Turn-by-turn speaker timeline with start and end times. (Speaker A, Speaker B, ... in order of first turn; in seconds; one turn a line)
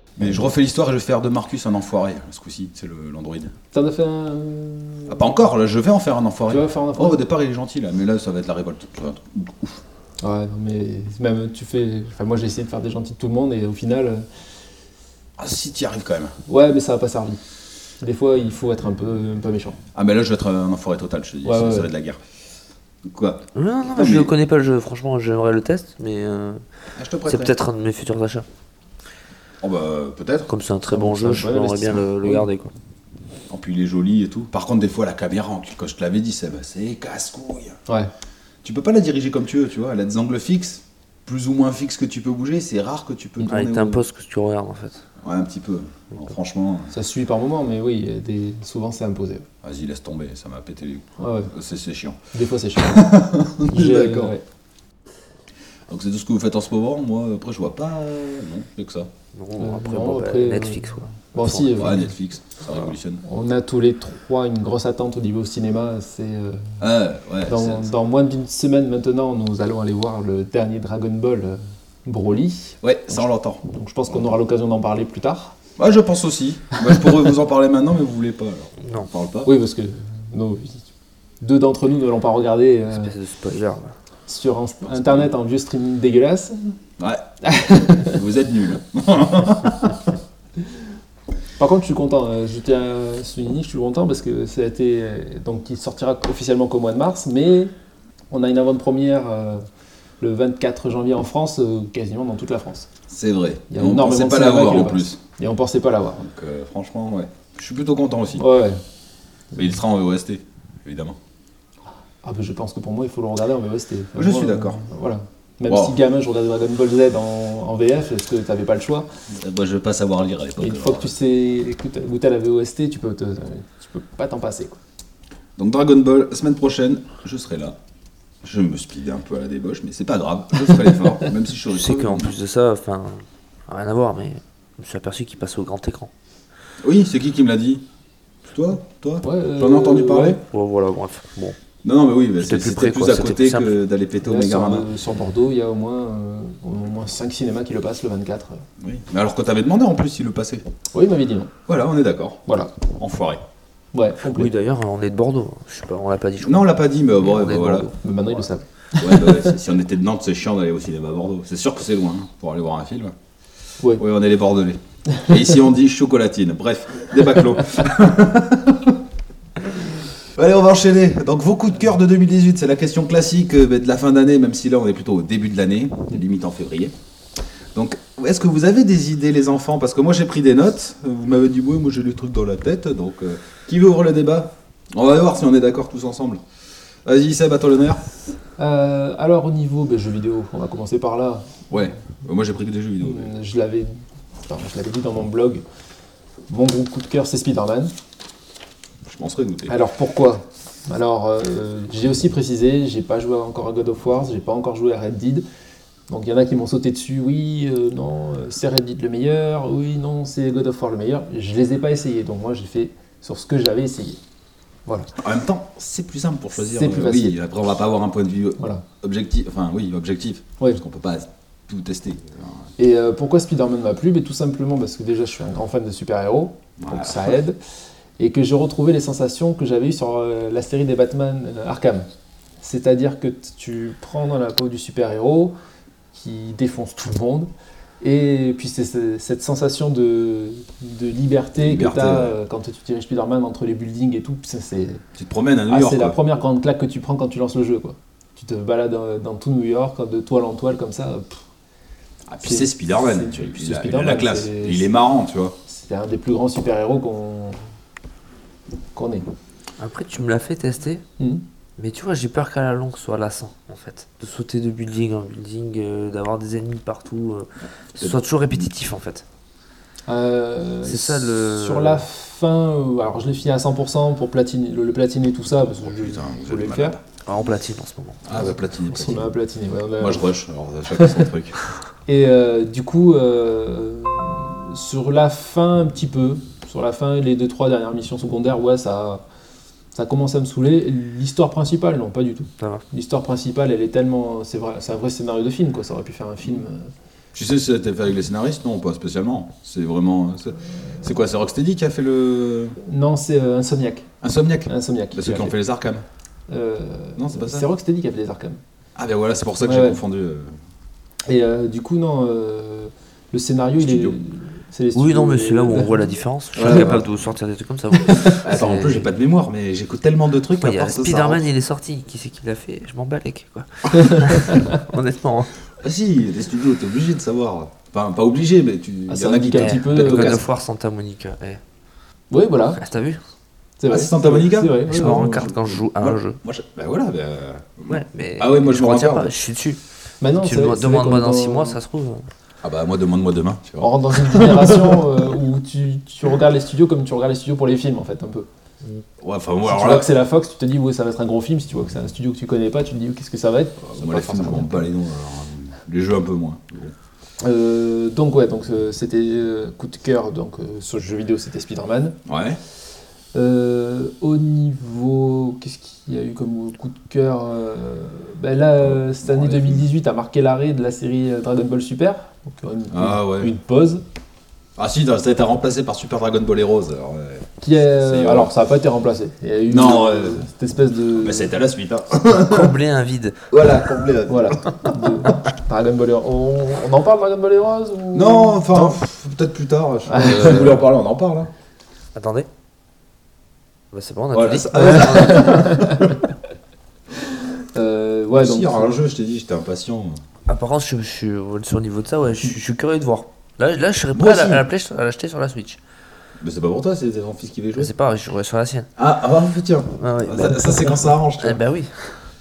Speaker A: 0.2-3.5
Speaker B: 3.7-5.3
Speaker A: 5.1-9.8
Speaker B: 6.5-7.2
Speaker B: 10.2-14.2
Speaker A: 15.4-16.3
Speaker B: 16.5-17.4
Speaker B: 18.0-19.8
Speaker A: 19.9-22.2
Speaker B: 21.4-21.9
Speaker A: 23.0-24.3
Speaker C: 23.5-26.6
Speaker A: 27.0-27.5
Speaker C: 27.2-28.4
Speaker A: 29.6-30.5
Speaker C: 30.5-32.7
Speaker B: 30.9-32.5
Speaker A: 33.5-37.8
Speaker A: 38.6-44.0
Speaker C: 43.5-45.0
Speaker A: 45.2-46.9
Speaker B: 46.9-49.5
Speaker A: 49.6-52.2
Speaker B: 51.2-51.5
Speaker B: 52.3-54.4
Speaker A: 52.8-54.3
Speaker A: 55.9-59.1
Speaker C: 59.3-62.0
Speaker B: 59.6-62.1
Speaker A: 61.8-63.2
Speaker B: 63.2-66.8
Speaker A: 66.8-67.9
Speaker B: 67.5-75.5
Speaker A: 72.8-73.6
Speaker A: 75.8-79.5
Speaker C: 78.8-79.1
Speaker B: 79.4-80.8
Speaker B: 81.4-83.1
Speaker C: 82.9-83.9
Speaker B: 84.3-86.7
Speaker A: 84.9-85.3
Speaker A: 87.0-87.3
Speaker B: 87.4-88.2
Speaker A: 87.9-90.1
Speaker B: 91.6-97.7
Speaker B: 98.3-99.6
Speaker B: 100.2-102.9
Speaker A: 103.1-105.2
Speaker B: 103.7-106.2
Speaker A: 106.2-108.5
Speaker B: 108.4-108.8
Speaker A: 109.5-111.2
Speaker B: 112.2-119.1
Speaker A: 114.1-114.8
Speaker A: 115.7-115.9
Speaker A: 119.3-121.1
Speaker B: 120.6-124.8
Speaker A: 125.6-127.8
Speaker A: 128.4-132.3
Speaker C: 131.7-136.1
Speaker A: 136.8-137.8
Speaker A: 138.5-140.4
Speaker B: 139.2-140.4
Speaker C: 140.4-141.6
Speaker A: 141.8-144.9
Speaker C: 142.4-143.7
Speaker B: 144.2-148.6
Speaker A: 148.8-150.7
Speaker B: 150.9-151.5
Speaker A: 151.7-153.4
Speaker B: 152.5-152.7
Speaker B: 153.9-154.5
Speaker C: 154.2-156.7
Speaker A: 156.4-157.9
Speaker C: 157.2-158.0
Speaker B: 158.0-159.4
Speaker A: 158.9-163.1
Speaker A: 163.9-169.0
Speaker A: 169.6-176.9
Speaker A: 177.7-186.4
Speaker A: 187.0-188.0
Speaker B: 188.6-191.7
Speaker A: 191.7-193.3
Speaker B: 193.0-195.6
Speaker B: 196.5-197.9
Speaker A: 199.1-199.7
Speaker B: 199.7-205.4
Speaker B: 206.1-214.2
Speaker B: 214.8-215.1
Speaker A: 215.2-222.7
Speaker B: 216.6-217.4
Speaker B: 218.6-218.8
Speaker B: 222.8-227.6
Speaker A: 226.8-227.4
Speaker B: 228.2-232.1
Speaker B: 232.6-235.6
Speaker B: 236.1-237.5
Speaker B: 238.0-245.0
Speaker A: 241.6-242.3
Speaker A: 245.2-246.2
Speaker B: 245.7-251.4
Speaker A: 252.3-255.6
Speaker B: 252.4-254.9
Speaker B: 255.7-257.6
Speaker B: 258.9-259.3
Speaker C: 259.8-261.0
Speaker C: 261.8-269.2
Speaker B: 270.1-277.0
Speaker C: 270.8-272.1
Speaker A: 275.8-277.0
Speaker C: 277.2-278.2
Speaker A: 278.2-279.3
Speaker B: 278.4-280.3
Speaker A: 280.0-281.6
Speaker B: 280.9-281.2
Speaker B: 282.1-289.2
Speaker B: 289.9-296.9
Speaker C: 292.6-292.8
Speaker A: 297.3-302.8
Speaker B: 302.8-304.1
Speaker A: 304.2-306.0
Speaker B: 304.7-305.5
Speaker B: 306.5-308.6
Speaker A: 307.2-307.6
Speaker A: 308.9-310.6
Speaker B: 309.6-310.0
Speaker B: 311.2-316.1
Speaker A: 313.8-314.2
Speaker C: 314.9-319.1
Speaker A: 316.5-317.1
Speaker A: 318.2-321.4
Speaker C: 320.6-325.5
Speaker B: 324.0-324.7
Speaker A: 325.8-330.4
Speaker B: 329.1-330.4
Speaker C: 329.5-331.6
Speaker B: 332.3-332.8
Speaker C: 332.8-333.2
Speaker B: 333.8-335.6
Speaker A: 333.9-339.3
Speaker C: 334.9-336.4
Speaker C: 337.9-339.8
Speaker B: 340.2-341.8
Speaker C: 340.4-342.2
Speaker A: 342.6-345.0
Speaker B: 343.8-348.5
Speaker A: 349.2-350.1
Speaker B: 349.7-354.8
Speaker A: 353.9-356.9
Speaker B: 357.4-362.2
Speaker A: 362.2-362.6
Speaker B: 363.3-374.0
Speaker A: 368.8-369.8
Speaker A: 372.9-373.5
Speaker A: 374.8-378.5
Speaker B: 377.6-381.6
Speaker A: 379.7-380.4
Speaker A: 381.1-382.8
Speaker C: 382.2-383.5
Speaker A: 383.5-385.4
Speaker B: 384.3-389.0
Speaker A: 388.1-391.5
Speaker B: 390.1-390.7
Speaker C: 392.1-392.5
Speaker C: 393.9-395.7
Speaker A: 394.3-396.2
Speaker B: 394.9-396.0
Speaker B: 397.3-399.0
Speaker A: 398.3-400.2
Speaker C: 400.5-405.8
Speaker A: 404.1-404.6
Speaker A: 406.4-407.9
Speaker C: 407.8-408.9
Speaker A: 409.0-411.6
Speaker C: 409.9-412.3